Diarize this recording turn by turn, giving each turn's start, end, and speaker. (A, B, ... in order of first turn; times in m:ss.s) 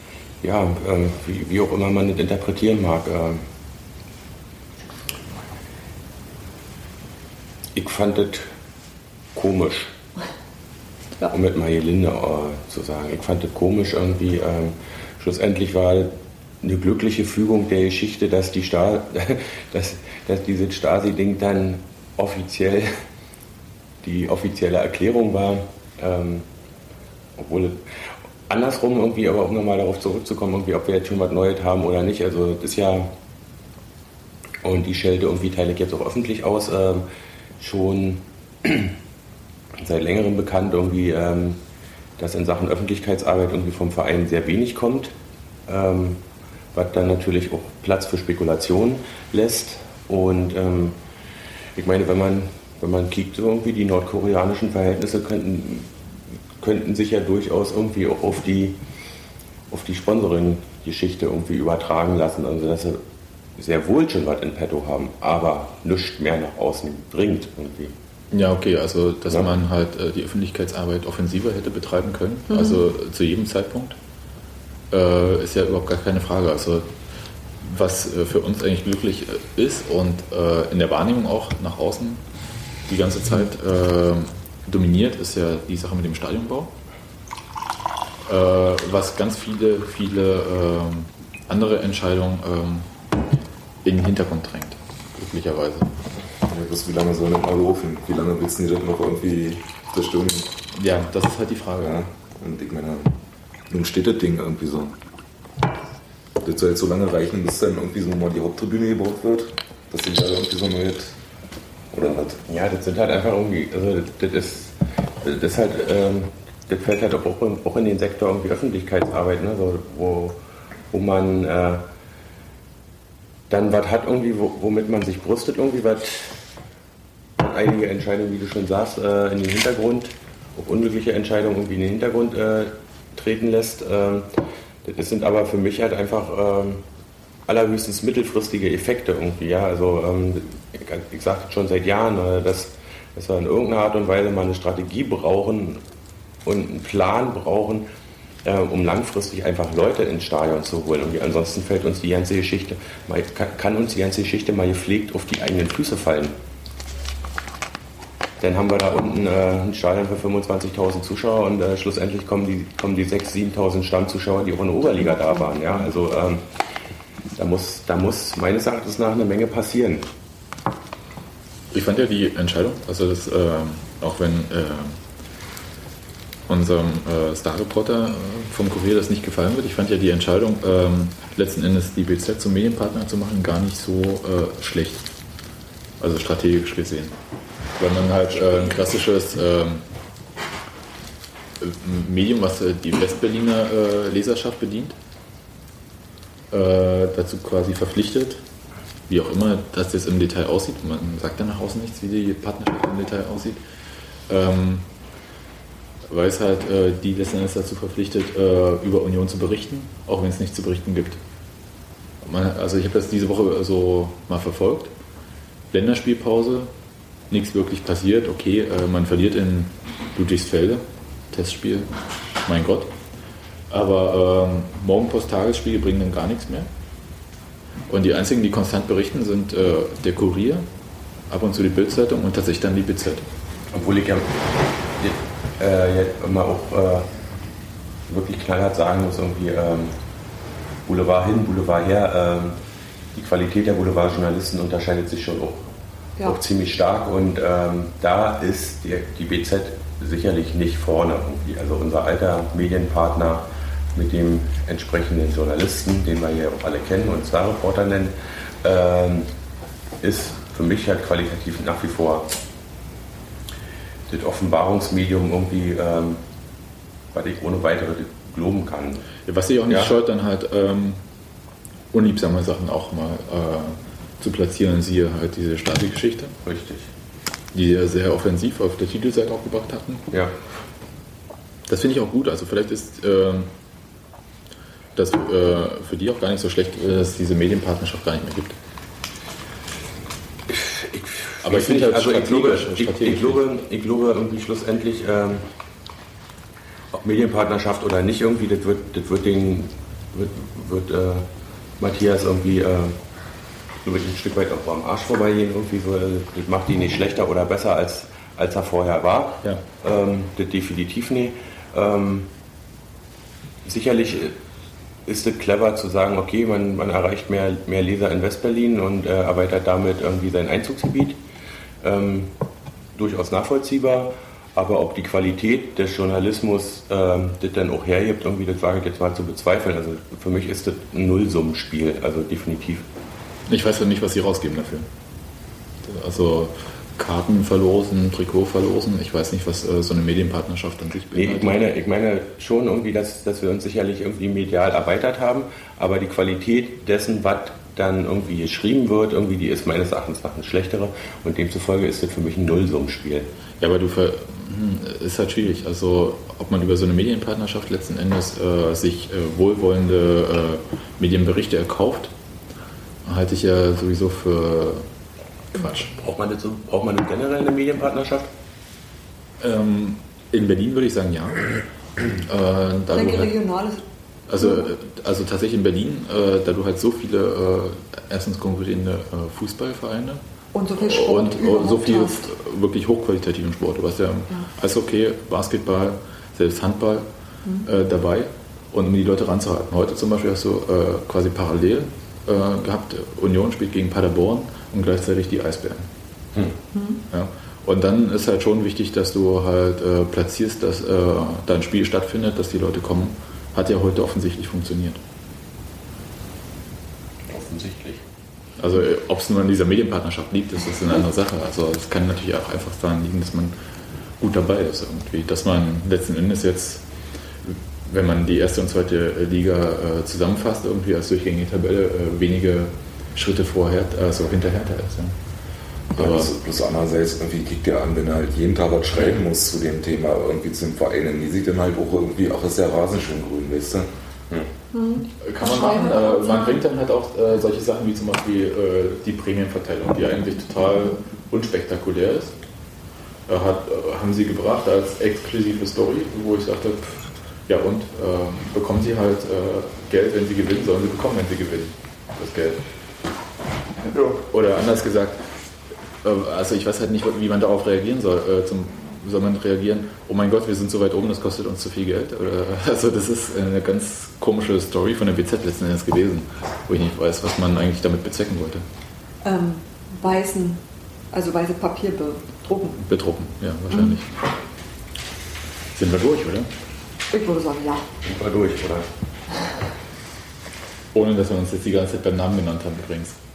0:00.4-0:03.4 A
0:07.7-0:08.5 A
0:09.3-0:09.9 A
0:11.3-0:22.9 A
0:24.0-0:26.4 A
0:27.4-0:27.8 A
0:28.5-0:33.1 A
0:34.6-0:37.0 A
0:37.6-0:38.9 A
0:39.8-0:41.6 A
0:42.2-0:45.1 A
0:45.7-0:46.2 A
0:46.7-0:51.0 A
0:51.8-0:55.9 A
0:56.6-0:58.8 A
0:59.7-1:03.0 A
1:03.6-1:07.9 A
1:08.3-1:14.0 B
1:12.5-1:12.8 C
1:14.9-1:16.9 B
1:17.6-1:22.2 B
1:22.9-1:26.7 B
1:28.2-1:32.9 B
1:33.8-1:35.9 B
1:36.4-1:40.5 D
1:40.7-1:42.0 B
1:41.8-1:43.2 D
1:43.7-1:45.0 D
1:46.4-1:51.1 D
1:51.9-2:00.4 A
2:00.9-2:01.8 A
2:03.5-2:06.4 A
2:07.4-2:16.8 A
2:17.4-2:25.8 A
2:26.4-2:27.8 A
2:28.4-2:36.3 A
2:38.4-2:46.5 A
2:45.2-2:45.7 C
2:47.4-2:50.1 A
2:51.7-2:55.0 B
2:56.5-3:05.0 B
3:06.0-3:07.2 B
3:07.8-3:09.8 B
3:11.6-3:15.0 B
3:16.5-3:18.4 B
3:19.1-3:23.6 B
3:24.3-3:24.9 B
3:26.1-3:31.2 B
3:32.2-3:34.9 B
3:35.7-3:36.7 B
3:37.3-3:41.9 B
3:42.4-3:42.9 B
3:43.7-3:46.7 B
3:47.9-3:50.6 B
3:51.3-3:53.2 B
3:53.7-3:57.1 A
3:58.1-3:59.9 A
4:00.8-4:02.6 A
4:03.1-4:05.7 A
4:06.2-4:19.3 A
4:20.0-4:22.3 A
4:24.1-4:26.2 A
4:27.1-4:29.1 A
4:29.3-4:31.0 B
4:31.9-4:36.4 B
4:36.4-4:36.9 A
4:37.5-4:40.0 B
4:41.7-4:43.5 B
4:44.9-4:48.6 B
4:50.5-4:55.4 A
4:51.4-4:53.4 B
4:56.9-5:01.2 A
5:01.8-5:03.0 A
5:03.8-5:12.3 A
5:13.6-5:14.4 A
5:15.0-5:21.2 A
5:21.8-5:22.3 A
5:22.9-5:32.8 A
5:33.5-5:34.9 B
5:35.8-5:41.6 B
5:41.1-5:53.3 A
5:53.6-6:02.1 B
6:03.0-6:04.9 B
6:05.5-6:05.9 B
6:05.9-6:08.3 A
6:09.4-6:11.5 B
6:12.1-6:13.4 B
6:12.9-6:13.8 C
6:14.3-6:20.2 B
6:20.5-6:22.2 C
6:20.8-6:27.1 B
6:27.6-6:35.9 B
6:36.7-6:37.0 C
6:37.1-6:45.0 B
6:47.3-6:48.0 A
6:48.6-6:53.5 B
6:54.2-6:56.8 B
6:57.4-7:05.2 B
7:05.9-7:06.3 B
7:05.9-7:13.9 D
7:14.7-7:16.6 C
7:15.2-7:22.4 B
7:23.3-7:32.6 B
7:34.0-7:35.2 B
7:36.0-7:48.6 B
7:49.2-7:52.7 C
7:52.7-7:54.1 B
7:55.7-7:56.5 B
7:57.1-7:57.9 C
7:58.0-7:58.9 A
8:00.9-8:03.2 B